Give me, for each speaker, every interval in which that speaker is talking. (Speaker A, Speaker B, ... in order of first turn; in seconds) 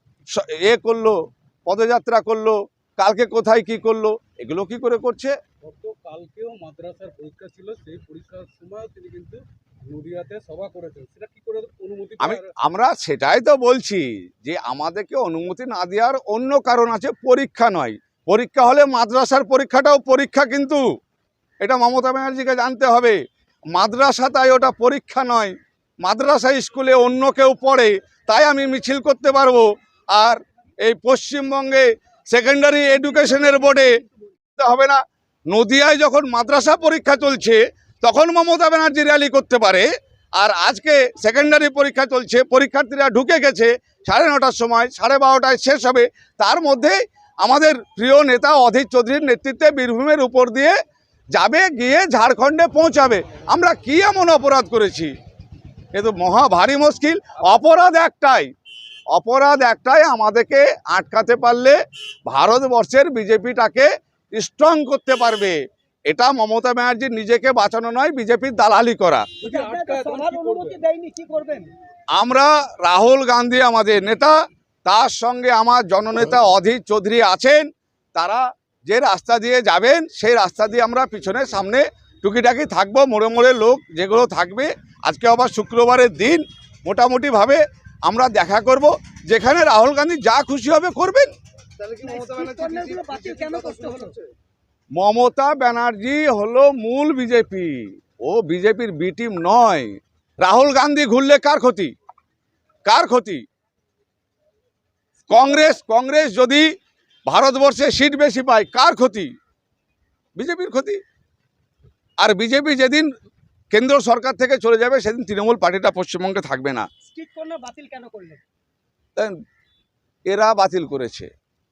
Speaker A: 0.3-5.3, 12.2-20.8, 21.6-23.2, 23.7-33.9, 34.6-50.8, 51.3-55.1, 55.9-58.5, 59.1-69.3, 72.1-91.3, 94.9-101.9, 102.8-103.4, 105.3-106.7, 107.3-109.3, 110.4-111.0, 112.2-113.1, 113.7-116.9, 120.3-121.3
Speaker B: 5.6-12.5, 69.4-70.8
Speaker C: 69.4-71.7, 91.8-94.2, 117.0-118.4